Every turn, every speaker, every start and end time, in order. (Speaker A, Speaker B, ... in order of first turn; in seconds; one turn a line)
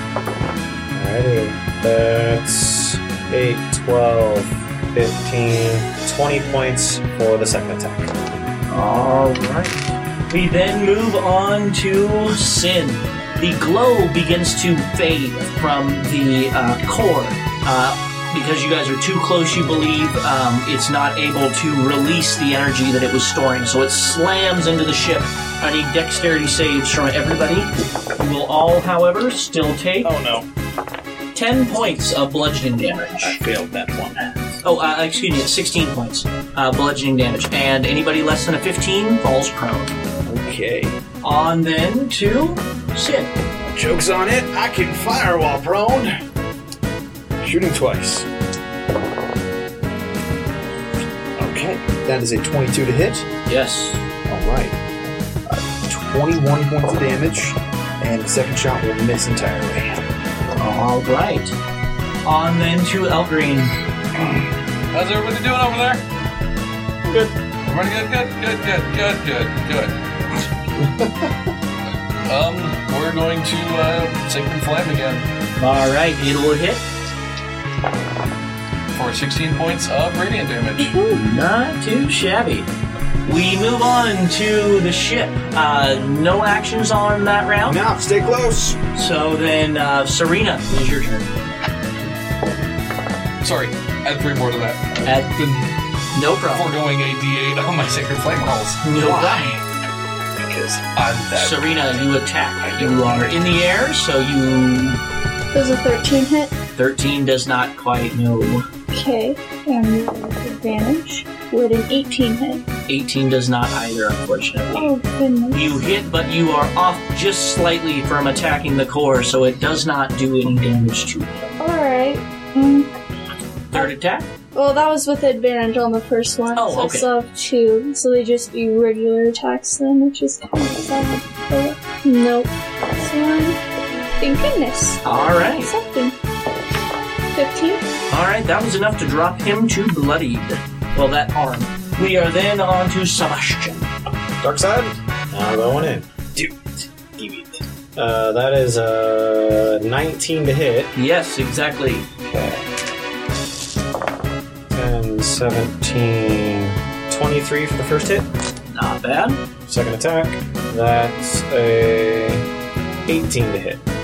Speaker A: 0.9-8.2
Speaker B: 8.7-30.1
Speaker C: 30.0-30.5
Speaker B: 31.3-33.4
Speaker C: 33.2-34.3
Speaker B: 34.6-39.9
Speaker C: 40.2-41.0
Speaker B: 41.2-43.3
Speaker C: 43.7-46.1
Speaker C: 47.4-48.3
Speaker C: 51.4-53.3
Speaker B: 53.5-54.0
Speaker C: 54.2-54.8
Speaker C: 55.5-60.0
Speaker B: 60.6-61.5
Speaker B: 62.2-63.7
Speaker D: 64.9-66.0
Speaker A: 67.0-67.3
Speaker D: 67.6-69.9
Speaker D: 72.2-75.3
Speaker B: 75.6-76.8
Speaker D: 78.9-81.0
Speaker E: 80.8-81.2
Speaker B: 81.1-82.7
Speaker B: 83.2-87.8
Speaker C: 87.7-88.8
Speaker B: 88.9-91.3
Speaker D: 93.4-95.7
Speaker B: 95.0-95.3
Speaker B: 96.1-96.7
Speaker D: 96.5-99.1
Speaker B: 98.8-99.6
Speaker C: 99.0-99.5
Speaker D: 100.4-102.0
Speaker B: 101.3-105.0
Speaker E: 105.5-106.5
Speaker B: 106.8-108.7
Speaker E: 108.9-112.6
Speaker B: 112.9-114.9
Speaker E: 114.7-115.8
Speaker B: 115.5-121.5
Speaker E: 121.6-122.9
Speaker B: 123.7-124.3
Speaker E: 124.5-133.6
Speaker B: 126.5-127.1
Speaker E: 134.2-136.2
Speaker B: 135.0-135.7
Speaker E: 137.3-137.8
Speaker B: 138.1-143.9
Speaker A: 144.4-146.1
Speaker C: 147.2-147.6
Speaker A: 147.9-150.9
Speaker B: 150.9-152.1
Speaker A: 152.3-152.6
Speaker A: 154.7-158.3
Speaker B: 158.7-159.4
Speaker A: 159.7-162.4
Speaker A: 163.1-163.8